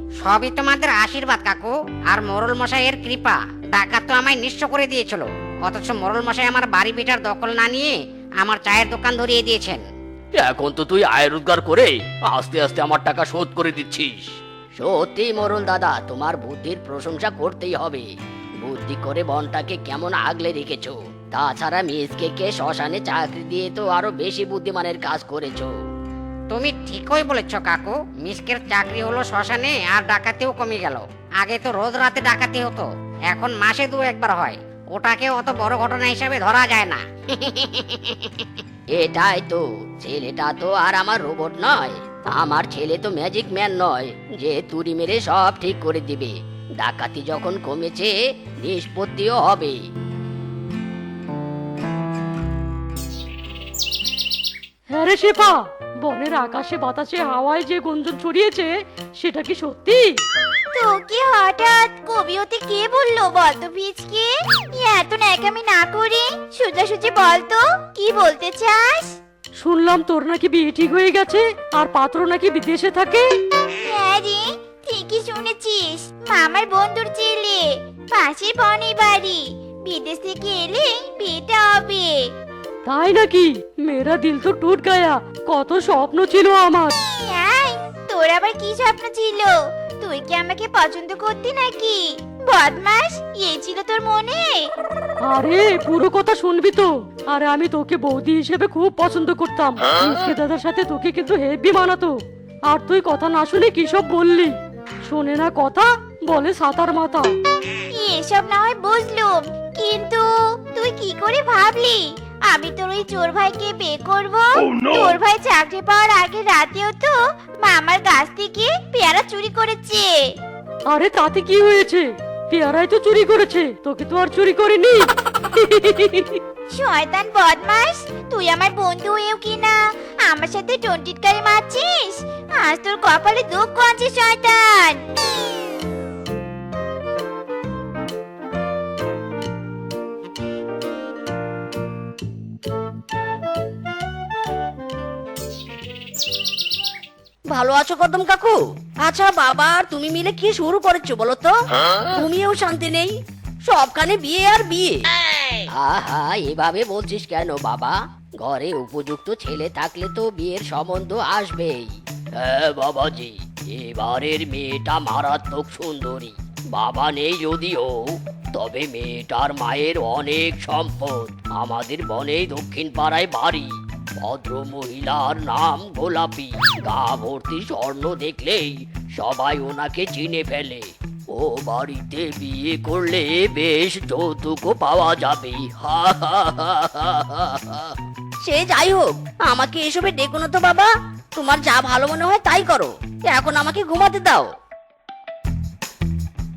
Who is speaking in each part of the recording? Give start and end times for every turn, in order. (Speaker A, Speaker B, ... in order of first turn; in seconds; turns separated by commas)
Speaker A: 0.2-7.9, Speaker A: 8.4-9.8, Speaker B: 10.4-14.4, Speaker C: 14.8-18.1, Speaker C: 18.6-25.7, Speaker A: 26.5-38.4, Speaker C: 39.0-48.1, Speaker C: 48.6-49.8, Speaker D: 54.9-60.2, Speaker E: 60.7-69.2, Speaker D: 69.6-73.3, Speaker E: 73.7-82.3, Speaker D: 82.9-86.9, Speaker E: 87.1-94.7, Speaker D: 95.3-107.3, Speaker E: 107.9-120.2, Speaker D: 120.9-126.4, Speaker E: 126.7-135.1, Speaker C: 147.5-151.5, Speaker C: 152.1-153.1, Speaker C: 153.7-155.0, Speaker C: 155.8-161.9, Speaker B: 162.4-188.0, Speaker C: 188.4-194.5